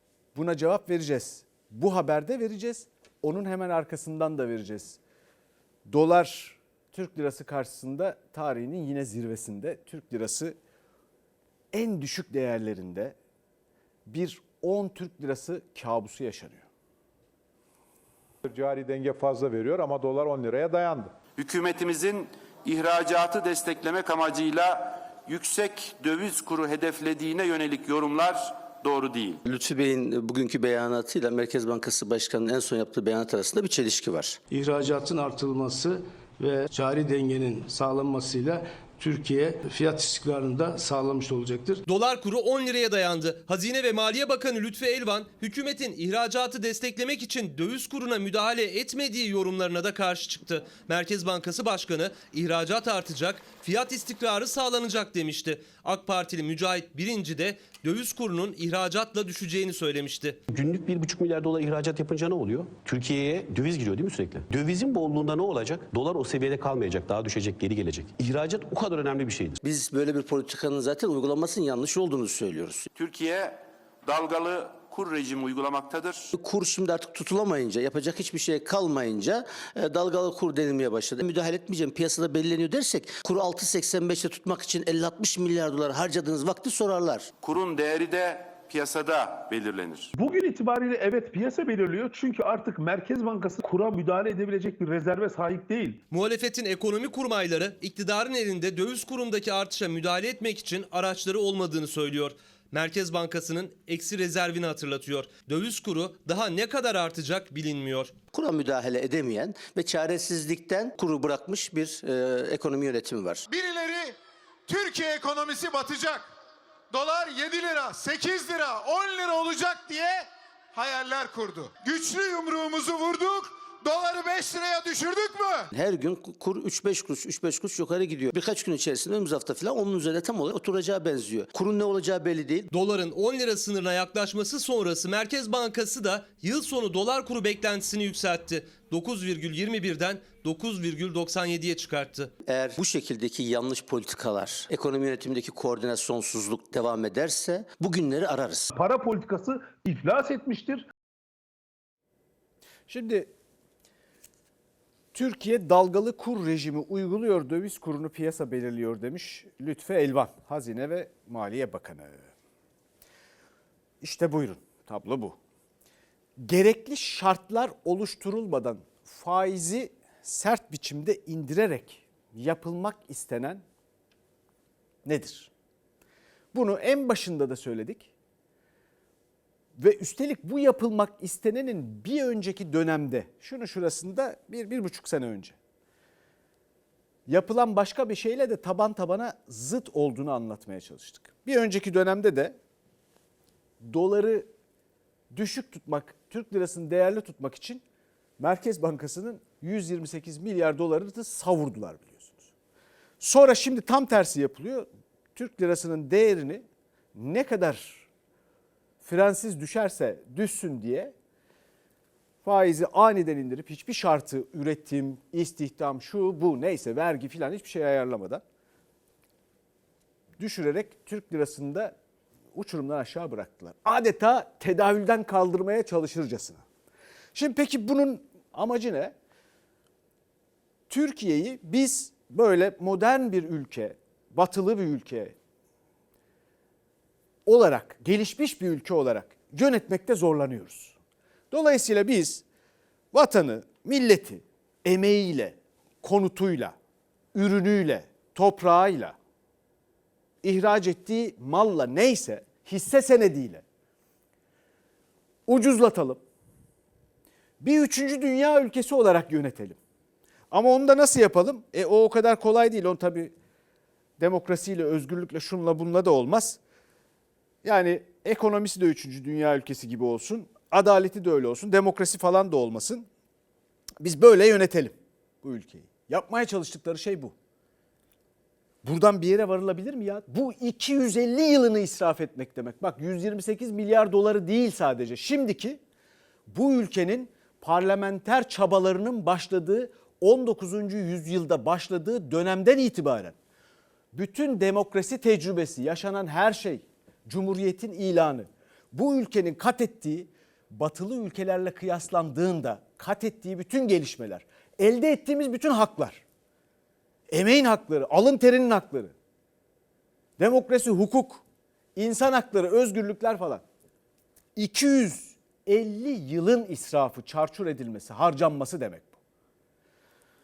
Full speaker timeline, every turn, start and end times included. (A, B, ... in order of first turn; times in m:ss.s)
0:00.3-0:05.0 A
0:05.9-0:10.6 A
0:11.7-0:13.1 A
0:14.1-0:16.7 A
0:18.4-0:21.1 B
0:21.4-0:29.4 C
0:29.4-0:34.4 D
0:34.5-0:41.8 E
0:41.9-1:00.4 F
1:00.5-1:09.6 G
1:09.6-1:12.9 D
1:12.9-1:16.3 C
1:16.3-1:27.3 D
1:27.4-1:30.1 C
1:30.1-1:36.0 H
1:36.1-1:48.1 F
1:48.3-1:53.4 D
1:53.5-1:56.3 I
1:56.9-2:05.7 I
2:05.7-2:12.7 D
2:12.7-2:22.3 F
2:22.4-2:28.7 D
2:28.7-2:30.9 H
2:32.9-2:33.3 A
2:35.1-2:42.2 A
2:44.0-2:45.4 A
2:46.4-2:53.6 A
2:55.0-2:55.5 A
2:56.5-2:58.1 A
2:59.8-3:05.6 A
3:07.3-3:12.5 A
3:13.8-3:14.5 A
3:15.3-3:17.8 A
3:18.4-3:22.5 A
3:23.2-3:26.6 A
3:27.1-3:28.1 A
3:29.0-3:31.1 A
3:32.4-3:38.4 A
3:40.4-3:41.9 A
3:42.5-3:46.6 A
3:47.3-3:49.1 A
3:50.9-3:55.3 A
3:57.4-4:01.0 A
4:01.5-4:02.4 A
4:03.1-4:06.7 A
4:07.3-4:09.2 A
4:10.4-4:13.6 A
4:15.5-4:16.2 A
4:17.6-4:19.8 A
4:20.5-4:23.3 A
4:24.2-4:26.6 A
4:27.6-4:33.1 A
4:34.0-4:37.3 A
4:38.8-4:45.8 A
4:46.5-4:53.3 A
4:54.1-5:06.2 A
5:07.3-5:09.1 A
5:10.4-5:11.4 A
5:12.0-5:13.6 A
5:14.6-5:19.1 A